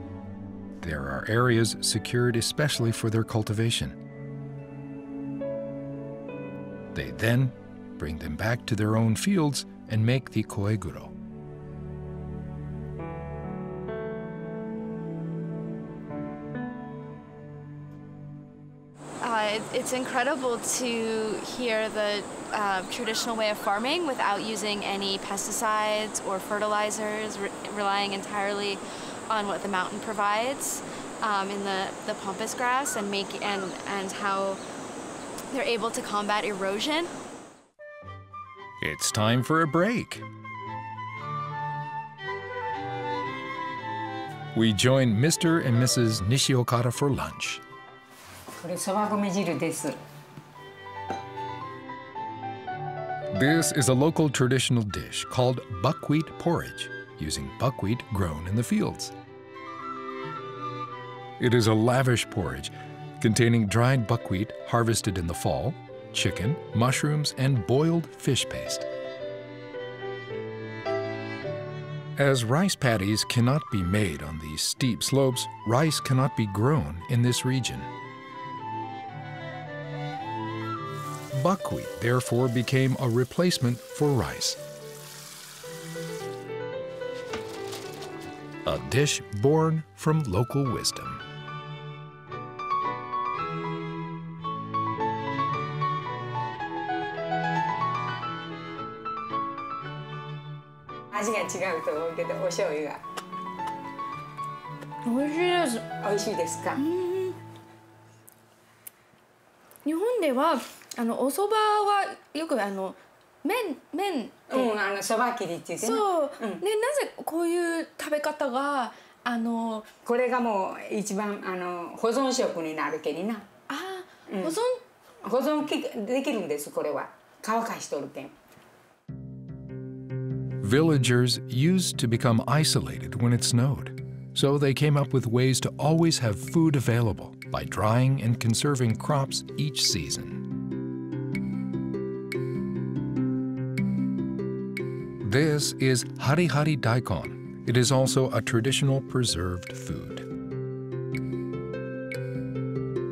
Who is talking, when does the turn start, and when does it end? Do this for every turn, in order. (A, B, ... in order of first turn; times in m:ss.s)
0:00.8-0:04.0 A
0:06.9-0:11.1 A
0:19.2-0:34.6 B
0:35.5-0:37.1 B
0:38.8-0:40.2 A
0:44.5-0:47.6 A
0:48.6-0:50.0 C
0:53.3-0:59.1 A
1:01.4-1:08.8 A
1:12.2-1:17.9 A
1:21.3-1:24.6 A
1:28.6-1:31.2 A
1:41.1-1:43.0 C
1:45.0-1:45.8 B
1:46.0-1:46.8 C
1:46.8-1:47.3 B
1:49.8-1:54.7 B
1:54.5-1:56.6 C
1:55.8-1:59.9 B
2:00.0-2:03.5 C
2:03.7-2:04.7 B
2:04.3-2:04.6 C
2:05.2-2:08.3 C
2:10.6-2:20.4 A
2:25.2-2:30.2 A